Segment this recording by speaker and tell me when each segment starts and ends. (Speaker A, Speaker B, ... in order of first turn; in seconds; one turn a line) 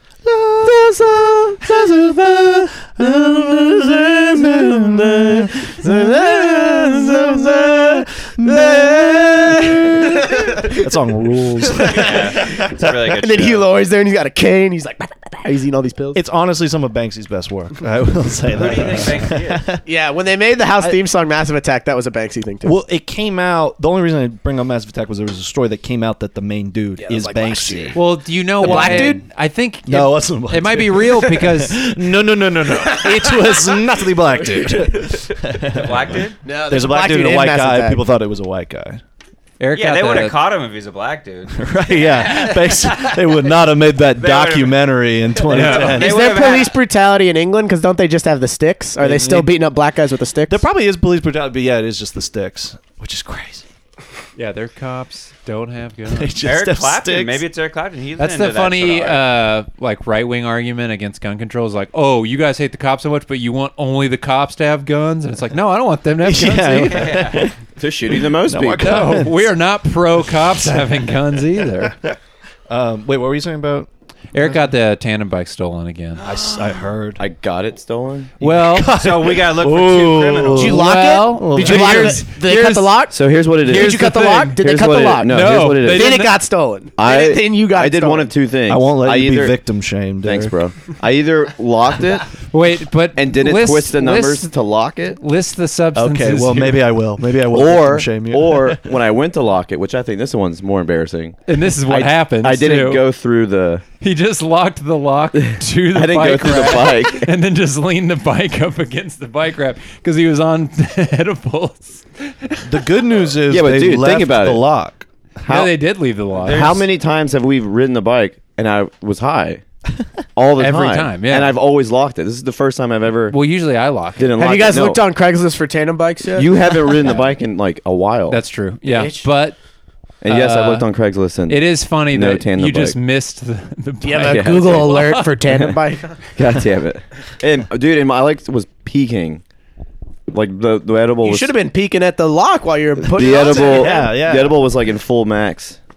Speaker A: 0.2-0.9
Speaker B: 0.6-10.9
Speaker A: 1.6-12.6
Speaker B: 11.7-16.2
Speaker C: 11.8-13.7
Speaker A: 16.1-19.8
Speaker C: 18.5-19.6
Speaker B: 19.9-22.8
Speaker A: 22.6-28.0
Speaker B: 27.0-29.2
Speaker D: 27.9-31.8
Speaker A: 28.6-29.2
Speaker A: 29.9-39.0
Speaker B: 34.4-35.1
Speaker C: 35.7-36.4
Speaker B: 36.4-38.0
Speaker D: 39.6-40.4
Speaker C: 39.7-43.5
Speaker A: 41.6-46.3
Speaker C: 44.1-46.8
Speaker D: 45.5-46.0
Speaker B: 45.9-50.6
Speaker A: 49.0-49.6
Speaker A: 50.5-53.6
Speaker D: 54.4-56.4
Speaker A: 56.1-57.5
Speaker C: 56.4-59.3
Speaker D: 58.2-67.4
Speaker A: 66.2-67.5
Speaker C: 66.9-67.5
Speaker E: 67.8-69.1
Speaker A: 68.1-69.5
Speaker D: 68.8-72.0
Speaker A: 70.4-70.9
Speaker A: 72.7-74.7
Speaker D: 74.3-76.2
Speaker A: 76.2-77.2
Speaker C: 76.2-76.7
Speaker E: 77.2-78.3
Speaker D: 78.4-79.0
Speaker A: 78.4-82.2
Speaker C: 78.9-80.8
Speaker B: 80.5-88.3
Speaker D: 80.6-84.6
Speaker E: 83.1-86.2
Speaker D: 85.2-86.3
Speaker E: 87.0-89.7
Speaker A: 88.7-90.5
Speaker E: 90.2-92.3
Speaker D: 92.5-94.5
Speaker E: 93.1-95.2
Speaker D: 95.1-96.9
Speaker A: 95.9-98.9
Speaker E: 97.4-103.8
Speaker D: 101.5-103.0
Speaker D: 104.0-112.8
Speaker E: 105.5-107.3
Speaker A: 112.6-115.5
Speaker E: 113.5-114.7
Speaker E: 115.4-115.8
Speaker D: 115.5-116.8
Speaker E: 116.4-119.6
Speaker C: 116.4-116.8
Speaker E: 120.3-123.4
Speaker D: 120.6-121.5
Speaker D: 123.3-124.3
Speaker E: 124.2-125.0
Speaker B: 124.4-127.2
Speaker E: 126.3-128.4
Speaker D: 128.3-129.6
Speaker B: 128.8-129.2
Speaker E: 130.2-133.0
Speaker D: 130.2-130.9
Speaker D: 131.5-135.4
Speaker B: 134.0-136.3
Speaker E: 134.2-135.5
Speaker E: 136.3-139.4
Speaker E: 140.3-141.5
Speaker B: 141.2-144.1
Speaker E: 143.0-145.8
Speaker A: 143.3-144.6